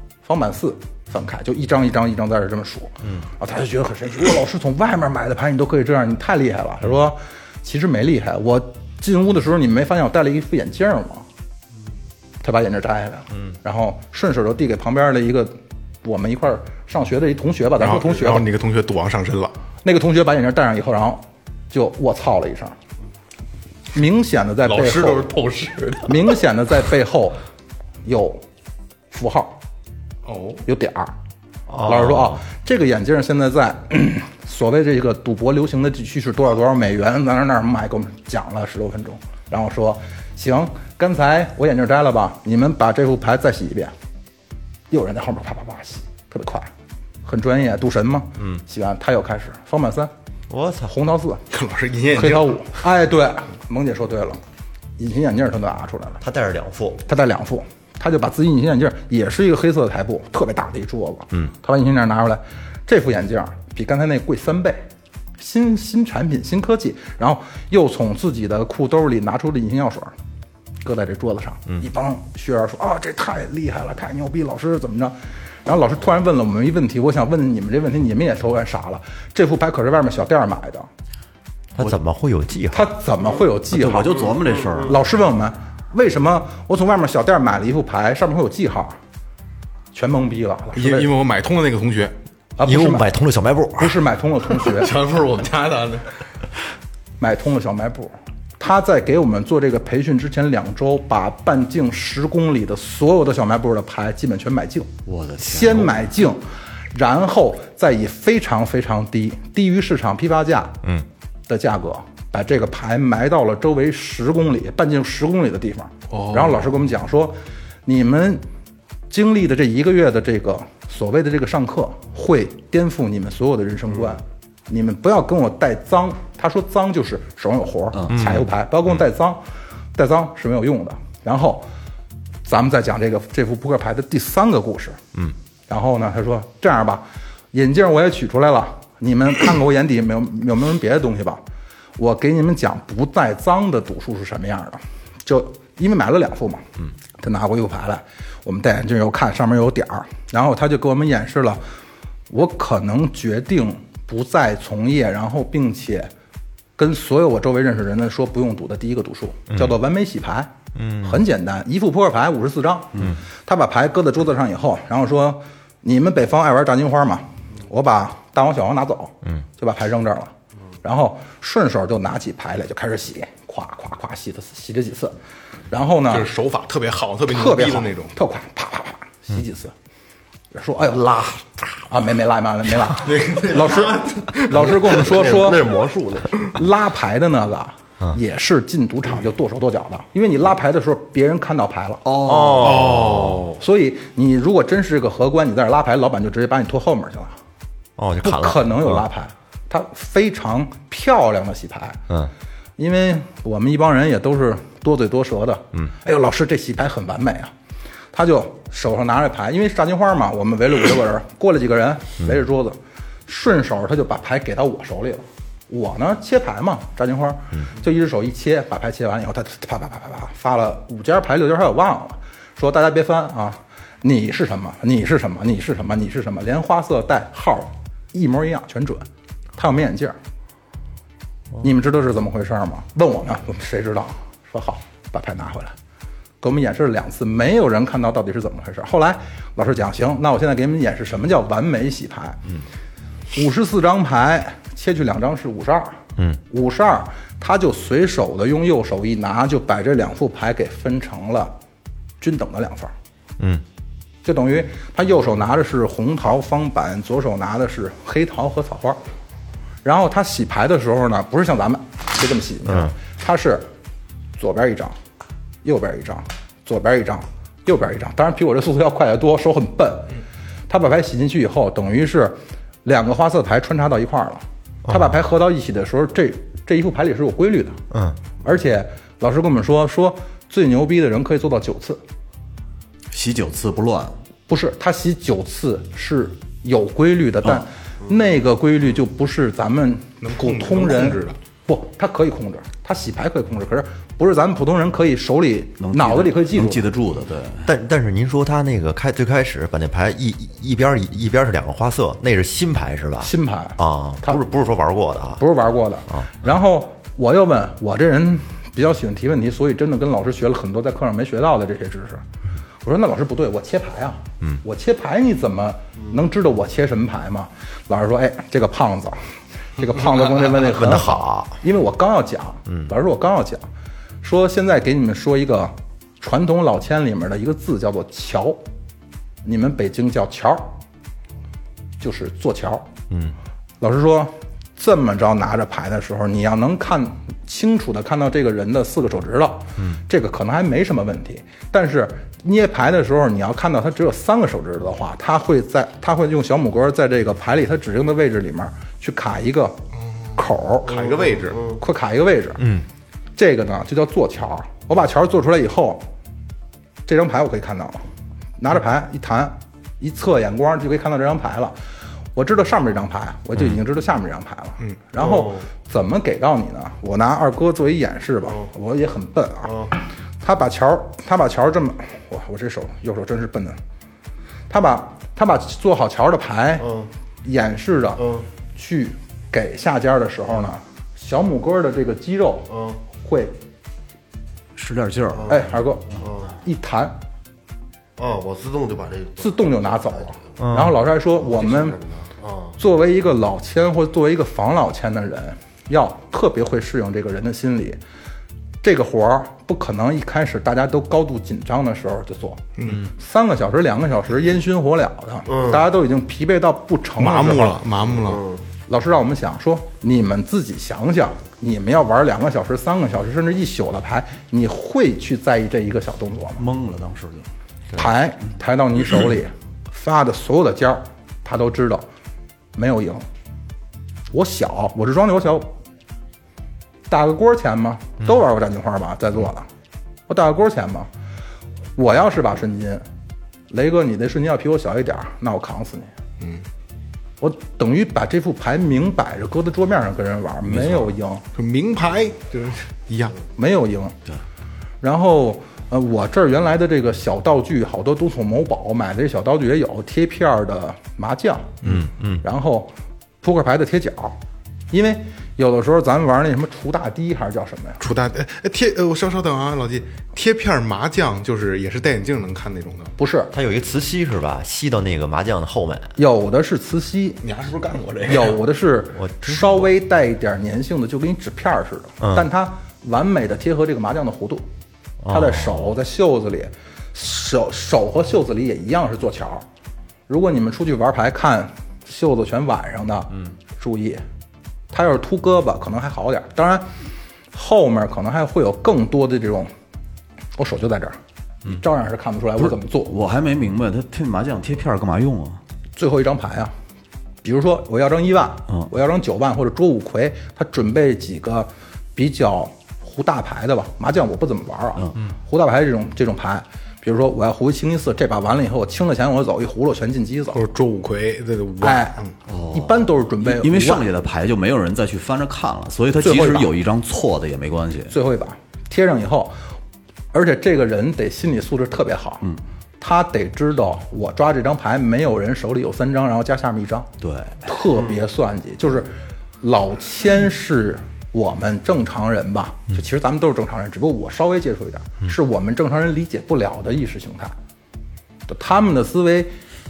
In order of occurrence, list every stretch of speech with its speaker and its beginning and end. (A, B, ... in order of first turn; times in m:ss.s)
0:00.2-0:11.3 A
0:03.0-0:03.3 B
0:12.4-0:18.5 A
0:17.8-0:19.5 C
0:19.8-0:22.8 A
0:23.9-0:25.3 A
0:24.6-0:26.4 C
0:26.1-0:27.4 A
0:28.0-0:28.4 A
0:29.1-0:29.6 A
0:30.2-0:30.6 C
0:30.7-0:31.1 A
0:31.7-0:32.4 B
0:31.8-0:43.9 A
0:44.9-0:46.7 A
0:47.2-0:50.1 A
0:50.5-0:51.0 B
0:50.9-0:51.4 A
0:51.5-0:52.8 C
0:52.1-0:54.4 A
0:55.0-0:56.2 A
0:56.2-0:57.0 B
0:57.1-1:04.8 A
1:05.4-1:10.1 A
1:10.8-1:20.9 A
1:21.8-1:23.0 B
1:22.7-1:24.2 A
1:23.7-1:25.0 D
1:24.6-1:24.9 E
1:24.8-1:29.0 A
1:29.9-1:31.1 A
1:30.8-1:32.1 C
1:32.6-1:33.1 A
1:32.6-1:34.0 B
1:33.8-1:35.0 A
1:34.6-1:36.1 C
1:37.2-1:50.8 A
1:45.1-1:46.0 D
1:51.5-1:58.4 A
1:56.1-1:56.7 C
1:59.1-2:09.4 A
2:08.1-2:08.4 B
2:10.0-2:11.7 A
2:12.5-2:15.0 A
2:15.7-2:21.4 A
2:22.0-2:26.7 A
2:27.2-2:31.6 A
2:32.3-2:36.1 A
2:36.8-2:55.2 A
2:39.5-2:39.8 B
2:40.8-2:41.2 B
2:55.7-2:56.3 A
2:56.1-2:58.2 C
2:57.3-2:59.7 A
3:00.5-3:05.6 A
3:02.9-3:05.1 C
3:05.0-3:06.6 E
3:06.5-3:12.1 A
3:12.0-3:13.2 D
3:12.2-3:13.4 B
3:12.6-3:13.6 C
3:13.6-3:17.4 A
3:18.0-3:19.0 B
3:18.2-3:22.0 A
3:22.8-3:27.5 A
3:28.1-3:49.1 A
3:49.6-3:50.2 A
3:51.6-3:55.8 A
3:56.4-4:02.4 A
4:03.3-4:11.5 A
4:12.2-4:12.9 A
4:13.4-4:13.6 B
4:14.2-4:19.0 A
4:19.8-4:23.7 A
4:22.6-4:23.0 B
4:24.4-4:25.0 A
4:25.6-4:30.1 A
4:30.7-4:37.8 A
4:34.9-4:35.1 B
4:37.9-4:38.2 B
4:38.4-4:42.0 A
4:43.1-4:44.2 D
4:44.5-4:56.9 A
4:50.2-4:51.4 C
4:55.8-4:57.7 D
4:57.6-5:05.4 B
5:03.2-5:04.4 A
5:05.4-5:12.2 A
5:12.8-5:19.2 A
5:19.8-5:23.7 A
5:20.4-5:21.6 B
5:24.2-5:28.6 A
5:29.4-5:30.8 A
5:32.0-5:32.9 A
5:33.1-5:33.4 B
5:33.8-5:49.8 A
5:50.0-5:51.7 C
5:50.4-5:50.9 A
5:50.8-5:51.8 E
5:51.8-5:52.7 A
5:52.6-5:52.8 B
5:53.4-5:56.1 A
5:57.1-5:58.0 A
5:58.6-6:01.8 A
6:02.4-6:09.8 A
6:05.2-6:05.7 E
6:09.7-6:09.9 E
6:10.4-6:13.8 A
6:14.7-6:16.9 A
6:16.8-6:17.1 E
6:17.4-6:18.2 A
6:18.2-6:18.5 E
6:18.8-6:23.6 A
6:22.7-6:23.0 E
6:24.8-6:25.6 D
6:25.3-6:26.5 E
6:25.5-6:27.2 A
6:28.2-6:30.4 E
6:29.4-6:32.0 A
6:30.6-6:31.0 B
6:31.4-6:32.8 E
6:32.8-6:38.0 A
6:38.8-6:47.8 A
6:42.8-6:43.1 C
6:45.5-6:45.8 E
6:47.2-6:48.4 C
6:48.1-6:48.6 E
6:48.9-6:56.6 A
6:56.6-6:57.5 D
6:57.9-7:02.1 A
7:02.8-7:03.2 A
7:04.3-7:05.7 A
7:07.1-7:09.7 A
7:10.3-7:11.1 A
7:12.0-7:13.0 A
7:13.7-7:16.1 A
7:17.4-7:21.4 A
7:21.6-7:23.4 C
7:23.6-7:24.2 A
7:25.0-7:31.8 A
7:31.8-7:32.4 B
7:32.4-7:34.4 A
7:34.9-7:38.0 A
7:38.0-7:43.1 C
7:43.2-7:43.5 A
7:43.5-7:46.2 B
7:46.2-7:47.4 A
7:47.4-7:48.6 C
7:48.3-7:54.6 A
7:49.2-7:49.9 B
7:52.2-7:52.5 B
7:55.2-7:55.9 B
7:55.3-7:59.7 A
8:00.3-8:04.2 A
8:04.9-8:06.9 A
8:07.5-8:09.7 A
8:10.6-8:13.1 A
8:12.6-8:15.6 D
8:16.0-8:16.7 A
8:17.4-8:30.6 A
8:30.5-8:32.3 C
8:31.8-8:32.2 A
8:32.5-8:38.2 D
8:32.7-8:34.1 A
8:36.2-8:36.7 A
8:38.1-8:39.6 A
8:40.3-8:42.5 A
8:43.0-8:47.1 A
8:47.2-8:47.7 D
8:47.6-8:57.6 A
8:58.5-8:59.5 A